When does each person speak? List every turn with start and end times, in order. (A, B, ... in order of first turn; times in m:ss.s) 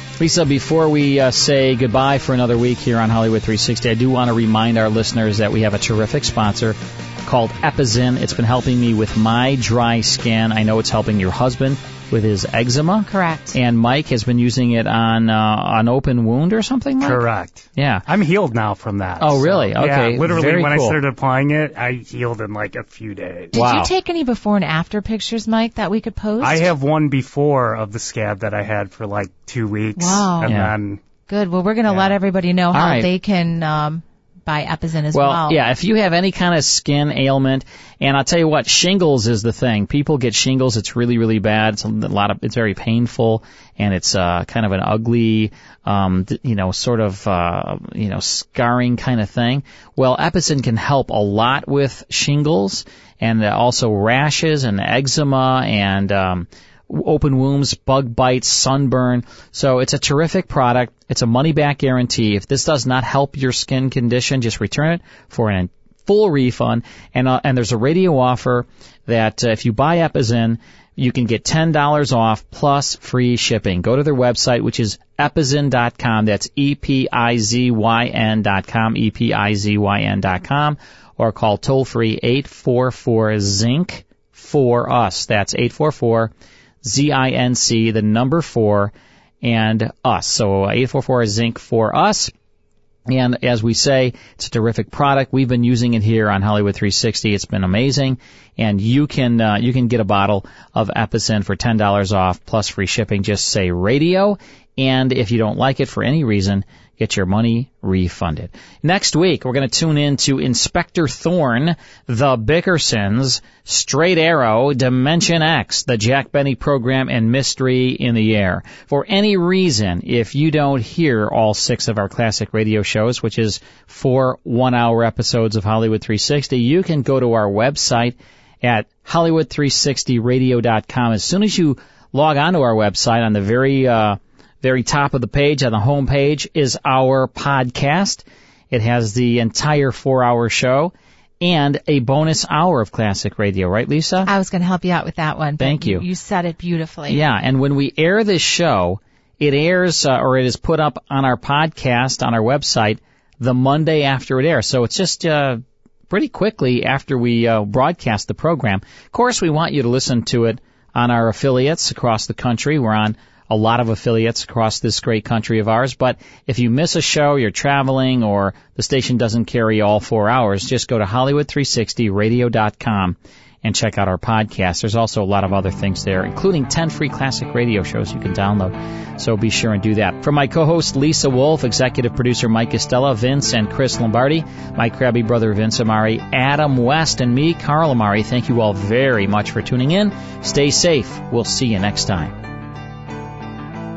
0:00.2-0:18.1 A
0:13.0-0:13.6 B
0:17.0-0:23.5 C
0:19.2-0:21.0 A
0:23.5-0:23.9 A
0:23.5-0:26.7 B
0:26.4-0:31.0 C
0:30.0-0:30.6 B
0:30.4-0:30.8 A
0:31.3-0:35.6 B
0:31.9-0:32.2 C
0:32.7-0:33.1 A
0:35.1-1:26.3 A
1:26.8-1:32.3 A
1:33.1-2:24.3 A
2:24.2-2:27.2 B
2:25.6-2:26.0 A
2:27.1-3:12.3 A